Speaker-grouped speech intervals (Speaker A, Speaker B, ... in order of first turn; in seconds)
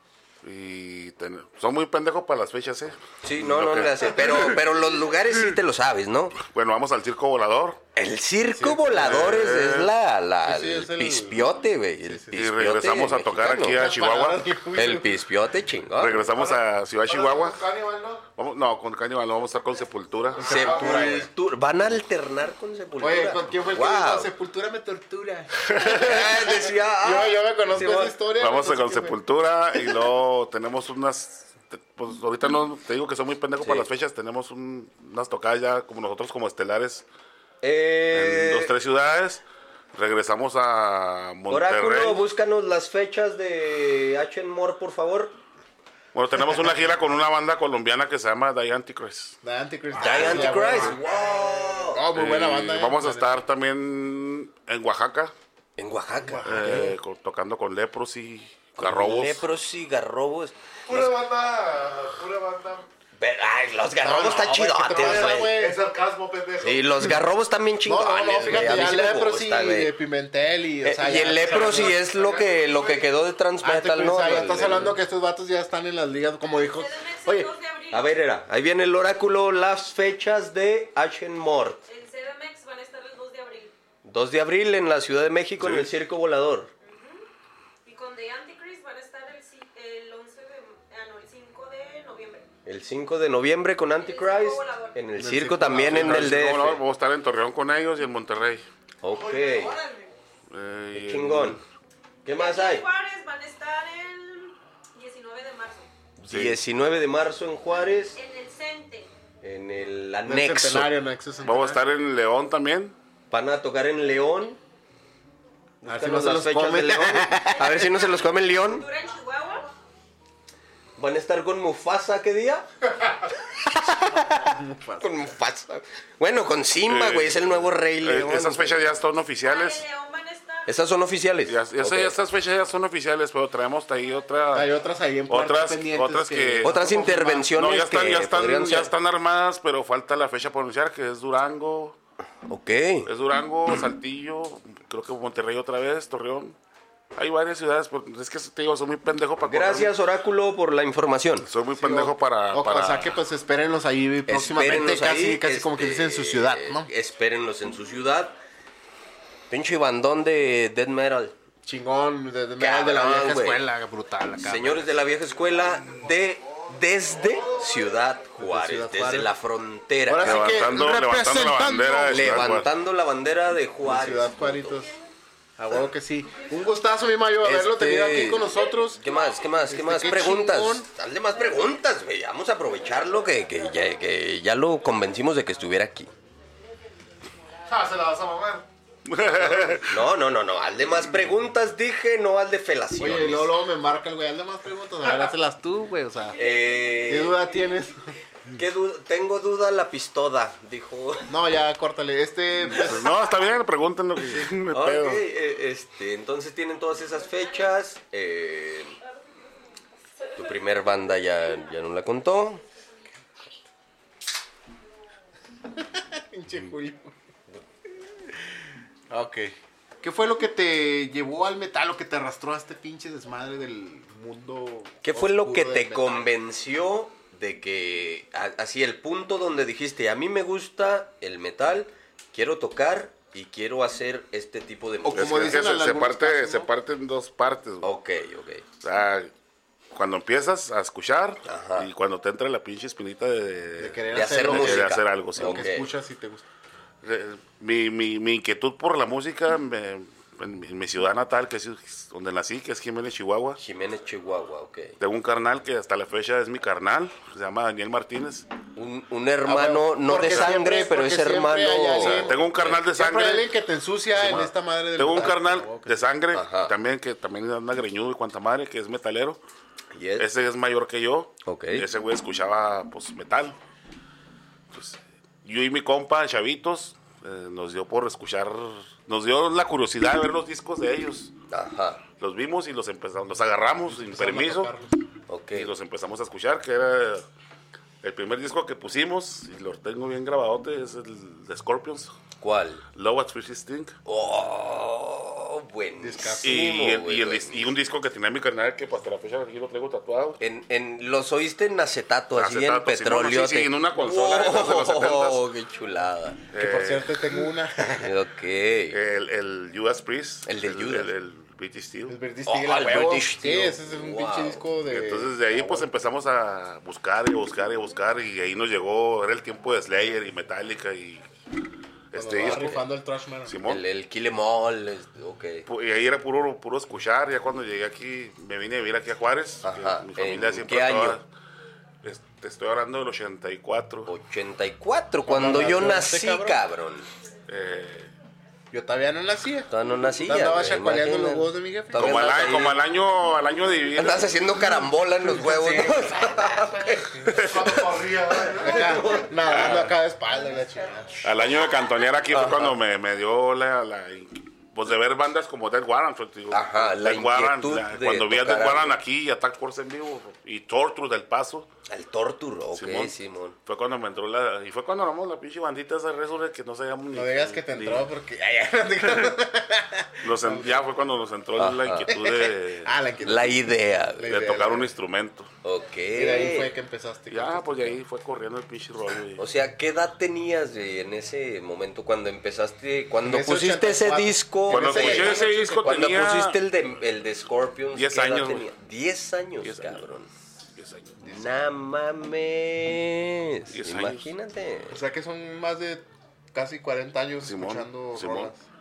Speaker A: 0.4-4.6, 6.4-7.8, 9.0-9.9, 12.3-14.5, 16.0-17.6, 18.4-20.9, 28.4-37.0, 38.1-42.2, 46.1-49.4, 52.1-55.3, 56.4-59.4, 85.6-85.9, 95.8-98.7, 100.5-101.6, 106.3-106.6, 111.4-113.0, 126.9-129.8, 131.4-134.7, 135.3-136.8, 137.5-142.0, 143.1-146.6, 147.2-149.9, 151.4-153.2, 170.2-172.7, 189.1-190.1, 202.8-205.2, 235.1-237.9, 238.8-239.3, 239.9-245.7, 247.0-253.6, 255.0-258.5, 262.0-263.5, 264.1-269.4, 270.2-273.6, 274.7-281.3, 282.2-284.7, 285.5-287.2, 288.0-292.1, 293.0-293.9, 296.4-300.4, 302.3-305.4, 306.5-307.2, 308.9-312.2, 314.9-321.2, 322.1-322.8, 323.5-323.8, 325.7-331.3, 332.0-334.1, 337.5-338.1, 341.9-344.4, 349.5-349.9, 351.2-361.7, 362.8-363.1, 363.7-368.1, 370.2-372.9, 374.2-375.5, 377.3-379.4, 384.7-386.6, 387.9-388.7, 389.6-390.1, 390.7-391.2, 393.7-394.3, 397.4-398.5
Speaker B: 3.2-6.4, 8.0-13.8, 14.8-16.2, 20.4-24.3, 25.8-28.2, 33.6-33.9, 37.6-38.7, 41.5-45.4, 50.0-52.0, 55.8-57.0, 58.8-61.1, 63.2-65.6, 66.6-69.9, 70.8-75.0, 77.9-81.8, 84.0-86.7, 92.7-96.8, 99.0-99.8, 100.9-101.6, 102.2-102.8, 106.2-108.2, 109.4-110.9, 113.3-114.6, 115.8-118.9, 121.0-122.7, 123.6-128.9, 130.7-132.2, 136.6-138.9, 142.5-143.1, 149.4-151.5, 154.3-158.4, 159.5-161.3, 162.6-163.6, 164.4-170.6, 172.1-174.9, 177.4-178.5, 179.0-186.1, 189.7-193.5, 196.4-197.4, 198.5-201.3, 204.7-209.0, 210.3-212.6, 225.0-235.7, 237.8-238.6, 241.4-241.9, 244.1-245.9, 253.6-255.0, 258.8-262.8, 266.3-266.7, 269.9-270.3, 271.5-271.8, 281.5-282.0, 285.3-285.7, 292.4-292.9, 294.1-297.7, 300.4-306.4, 308.0-309.0, 310.5-311.1, 312.5-314.7, 322.4-322.8, 323.7-325.7, 329.6-331.2, 334.1-337.1, 339.7-342.8, 343.9-347.9, 348.6-349.8, 352.3-352.8, 356.5-358.9, 361.9-363.6, 371.6-372.5, 373.2-374.3, 375.6-376.7, 379.4-390.3, 391.3-395.0
Speaker C: 8.5-9.5, 10.5-11.5, 12.0-12.5, 13.6-15.2, 20.4-21.3, 23.0-29.2, 49.4-53.4, 56.3-56.9, 64.0-65.8, 67.8-72.0, 73.6-77.5, 95.2-96.4, 110.2-111.8, 115.8-117.8, 123.9-125.1, 134.5-137.5, 151.8-156.9, 161.7-164.9, 168.4-169.3, 170.1-172.4, 173.8-174.9, 175.6-179.0, 179.7-180.9, 193.0-196.4, 197.1-198.0, 201.3-203.1, 215.8-217.1, 219.1-226.3, 235.0-236.7, 243.8-246.4, 259.4-266.0, 283.9-285.0, 296.0-296.9, 306.5-308.1, 312.1-315.4, 322.1-323.6, 335.3-336.6, 338.7-342.7, 345.4-346.1, 348.5-351.2, 367.1-370.8, 372.8-374.9, 376.1-378.0, 383.2-385.5, 391.2-391.7, 394.9-398.6
Speaker D: 16.3-18.3, 20.4-21.2, 50.1-51.9, 60.9-62.9, 64.9-67.1, 71.4-73.1, 187.7-188.7, 347.3-349.0
Speaker E: 76.7-78.1, 81.9-83.7, 86.8-87.2, 87.8-92.5, 94.0-95.1, 99.6-100.0, 102.3-105.9, 108.2-109.1, 117.6-119.7, 129.4-130.8